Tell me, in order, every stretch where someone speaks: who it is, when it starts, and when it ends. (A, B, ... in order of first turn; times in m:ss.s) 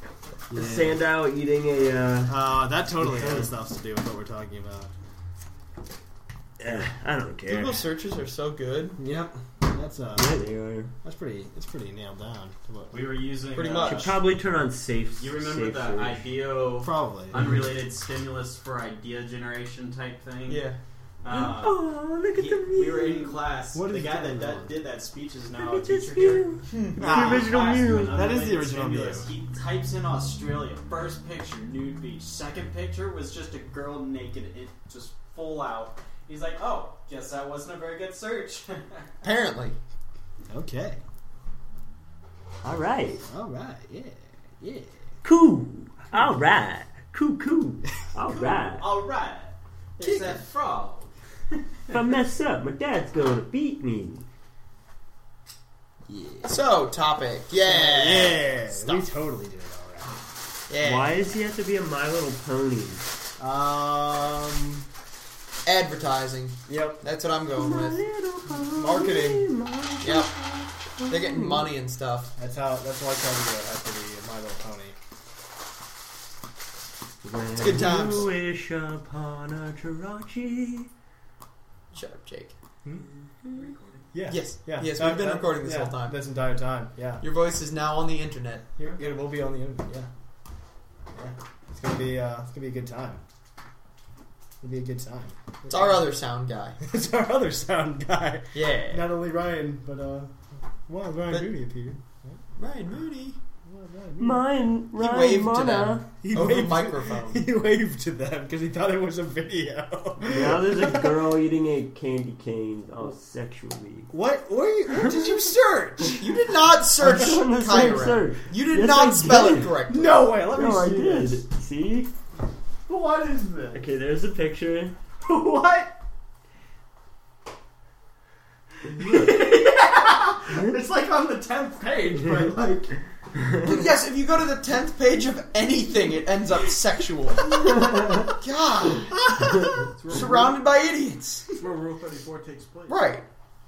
0:00.5-0:01.0 A
0:00.5-0:03.5 B
0:02.3-0:04.9 A
0:06.6-0:07.8 B
0:07.5-0:09.0 C
0:09.0-0:10.4 A
0:10.2-0:10.9 B
0:11.0-0:13.0 A
0:12.9-0:14.1 D
0:13.5-0:14.2 C
0:13.8-0:16.3 B
0:15.2-0:20.7 D
0:16.8-0:17.5 A
0:20.4-0:20.8 C
0:21.2-0:39.0 D
0:21.3-0:23.4 B
0:23.7-0:24.8 A
0:25.6-0:28.3 B
0:26.7-0:27.5 C
0:27.0-0:29.3 A
0:39.2-0:39.8 C
0:40.5-0:41.0 A
0:42.6-0:43.2 B
0:43.2-0:44.9 A
0:45.2-0:48.8 B
0:48.2-0:51.1 D
0:50.0-0:50.4 C
0:51.9-0:54.3 B
0:56.1-0:56.6 A
0:56.4-0:59.0 C
0:57.6-1:00.3 A
1:00.7-1:01.2 C
1:00.8-1:03.1 B
1:03.4-1:04.8 A
1:05.6-1:08.0 C
1:06.7-1:07.0 A
1:07.5-1:11.6 B
1:08.5-1:09.4 A
1:10.0-1:10.3 C
1:11.1-1:12.3 C
1:12.4-1:14.9 A
1:17.2-1:20.9 B
1:17.6-1:18.3 C
1:21.9-1:22.5 C
1:23.5-1:24.0 D
1:24.1-1:27.2 A
1:24.3-1:26.2 C
1:27.2-1:29.1 C
1:28.8-1:30.1 A
1:31.1-1:33.2 A
1:34.6-1:36.0 A
1:35.7-1:36.8 C
1:36.8-1:40.3 A
1:38.5-1:39.0 C
1:40.9-1:42.4 A
1:42.6-1:43.4 C
1:43.6-1:44.4 A
1:44.2-1:46.1 B
1:45.0-1:47.4 C
1:46.2-1:51.1 A
1:50.2-1:54.1 B
1:54.1-1:56.3 A
1:55.0-1:55.4 C
1:56.0-2:00.3 C
1:57.0-1:59.7 B
1:59.9-2:01.4 A
2:00.5-2:02.1 B
2:02.9-2:03.8 A
2:03.7-2:05.0 B
2:05.2-2:06.0 A
2:08.9-2:12.9 A
2:13.6-2:21.5 C
2:19.3-2:20.2 A
2:19.9-2:20.6 D
2:21.6-2:23.1 D
2:22.9-2:23.2 C